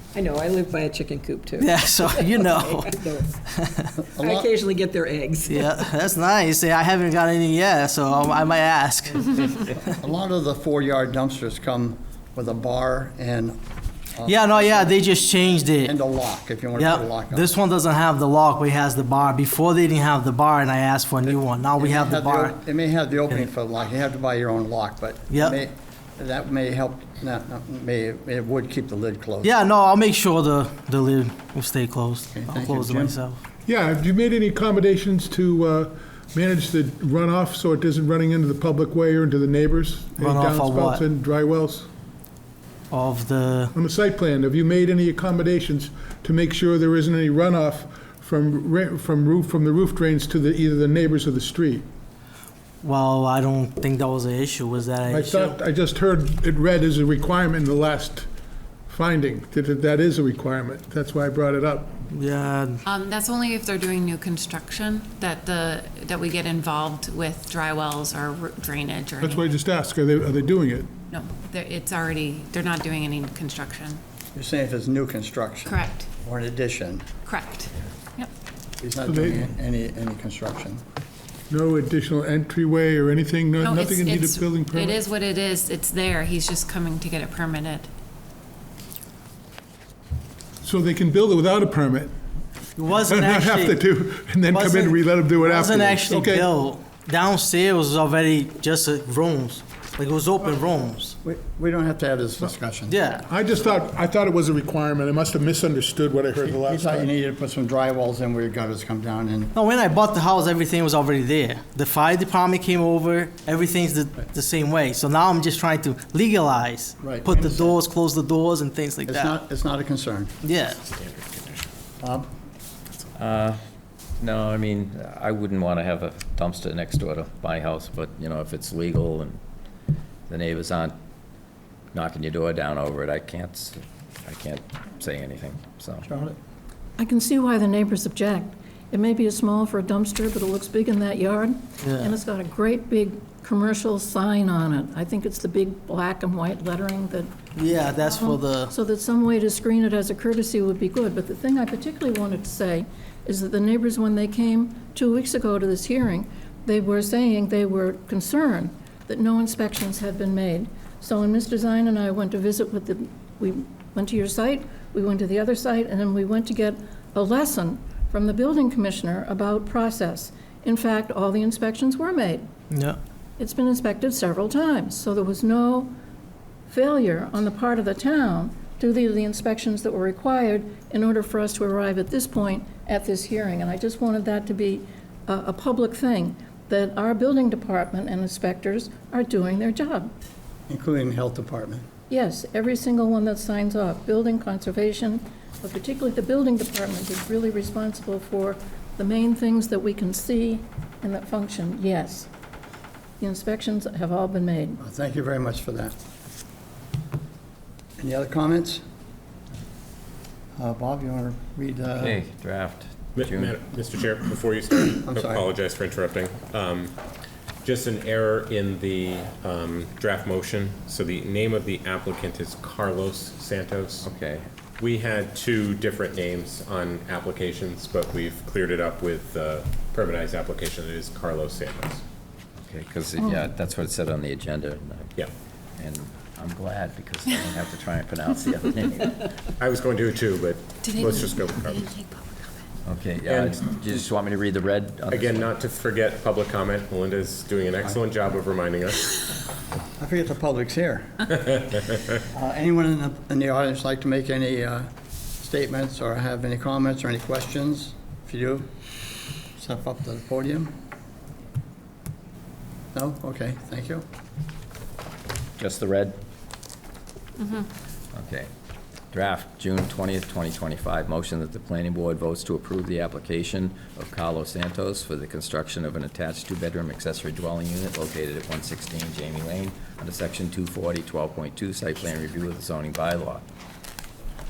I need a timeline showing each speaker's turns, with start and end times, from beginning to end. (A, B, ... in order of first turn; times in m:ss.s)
0:00.1-0:03.3 A
0:01.6-0:03.9 B
0:04.1-0:06.0 A
0:04.2-0:04.5 C
0:05.4-0:09.3 B
0:09.9-0:13.6 C
0:14.1-0:15.0 C
0:14.3-0:16.0 B
0:15.8-0:17.5 C
0:16.8-0:22.6 B
0:21.8-0:29.6 C
0:25.3-0:25.6 B
0:29.4-0:33.4 B
0:32.3-0:33.2 C
0:33.7-0:41.9 D
0:40.2-0:41.0 B
0:42.9-0:43.7 B
0:43.7-0:51.9 D
0:52.8-0:55.6 B
0:55.1-0:58.3 D
0:58.9-1:02.0 D
1:02.1-1:02.8 B
1:02.9-1:09.5 E
1:09.2-1:10.9 D
1:11.1-1:14.0 E
1:14.4-1:17.0 C
1:15.7-1:16.1 E
1:17.2-1:18.3 E
1:18.8-1:20.8 C
1:19.0-1:19.6 D
1:21.5-1:25.0 D
1:23.6-1:27.9 E
1:30.6-1:32.1 D
1:32.8-1:33.8 B
1:32.9-1:36.5 D
1:34.5-1:41.2 B
1:41.2-1:43.0 C
1:42.9-1:43.3 B
1:43.2-1:47.1 D
1:46.4-1:49.5 C
1:49.6-1:59.4 B
1:57.0-1:57.8 C
1:59.1-2:00.4 C
2:00.4-2:00.8 B
2:00.8-2:01.7 F
2:02.0-2:02.3 C
2:03.2-2:03.6 G
2:04.2-2:09.4 G
2:10.3-2:11.0 G
2:11.9-2:16.1 G
2:16.0-2:16.4 C
2:17.0-2:52.5 H
2:21.8-2:22.1 B
2:27.6-2:28.7 B
2:52.7-2:53.0 B
2:53.4-2:55.9 H
2:56.7-3:10.1 H
3:10.7-3:11.8 C
3:12.1-3:22.3 H
3:23.2-3:24.8 H
3:24.8-3:25.9 C
3:28.0-3:28.8 C
3:30.6-3:32.2 C
3:32.0-3:33.6 G
3:33.2-3:37.0 F
3:35.0-3:35.5 C
3:37.6-3:44.1 F
3:44.0-3:44.5 G
3:44.8-3:52.0 F
3:52.6-3:55.2 G
3:55.8-3:59.3 G
3:59.6-4:01.9 F
4:00.8-4:02.6 E
4:02.8-4:05.6 G
4:03.3-4:03.6 F
4:05.1-4:09.1 F
4:10.0-4:11.3 C
4:11.4-4:12.2 F
4:12.3-4:14.9 C
4:15.4-4:18.7 C
4:19.6-4:20.7 C
4:22.9-4:24.0 C
4:25.6-4:26.2 G
4:27.4-4:27.7 E
4:28.1-4:28.5 G
4:29.1-4:43.4 G